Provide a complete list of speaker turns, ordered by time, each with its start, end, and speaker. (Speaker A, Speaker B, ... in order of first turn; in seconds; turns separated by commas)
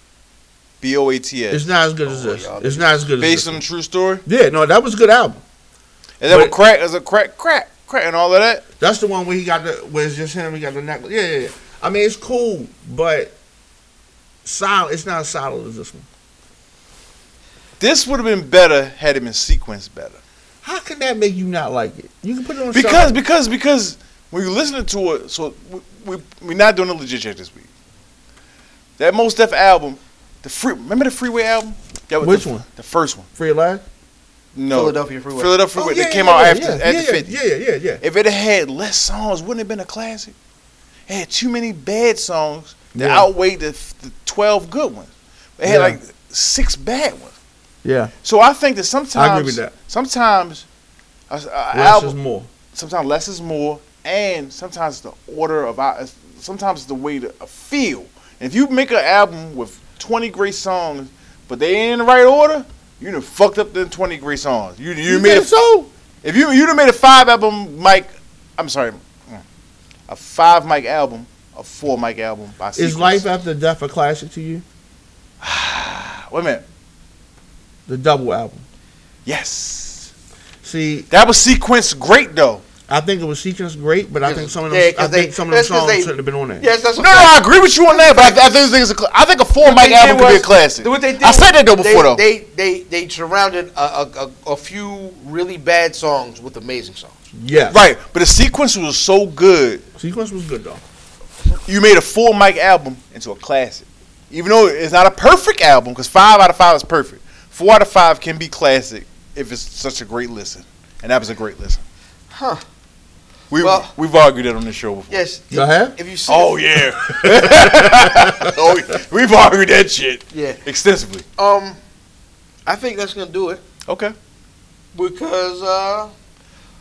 Speaker A: 0.8-1.7, Speaker B: 1.5-3.6, Speaker C: 2.0-3.1, Speaker A: 3.2-4.2, Speaker B: 4.2-5.4, Speaker A: 6.2-8.6, Speaker B: 6.3-6.5, Speaker B: 8.8-13.4, Speaker B: 14.4-16.1, Speaker A: 17.8-20.2, Speaker B: 20.6-23.2, Speaker A: 22.7-27.7, Speaker A: 29.0-33.2, Speaker B: 32.2-32.6, Speaker B: 33.4-33.8, Speaker A: 34.5-37.4, Speaker C: 34.7-35.7, Speaker B: 35.8-38.0, Speaker A: 38.0-40.3, Speaker A: 41.1-47.3, Speaker B: 42.9-43.3, Speaker B: 45.6-46.0, Speaker B: 47.8-48.1, Speaker A: 48.2-50.6, Speaker B: 49.1-49.7, Speaker A: 51.3-52.1, Speaker B: 51.7-52.5, Speaker A: 52.7-65.5, Speaker B: 65.0-65.9, Speaker A: 66.2-69.4, Speaker A: 70.1-73.2, Speaker B: 72.8-74.6, Speaker A: 75.4-76.6, Speaker B: 77.9-78.6, Speaker A: 79.2-80.1, Speaker B: 80.6-81.1, Speaker A: 81.1-82.6, Speaker B: 82.9-86.7, Speaker C: 84.2-88.4, Speaker A: 87.0-92.2, Speaker C: 89.6-97.2, Speaker B: 97.3-97.9, Speaker A: 97.7-99.8, Speaker B: 100.0-100.8, Speaker A: 101.7-111.8, Speaker C: 112.3-112.6, Speaker A: 113.5-115.2, Speaker C: 113.6-113.9, Speaker C: 115.1-116.6, Speaker B: 115.5-116.0, Speaker A: 116.3-121.2, Speaker B: 117.1-118.7, Speaker C: 120.3-120.6, Speaker C: 121.4-121.8, Speaker C: 122.7-123.6, Speaker A: 123.9-124.1, Speaker C: 124.9-126.1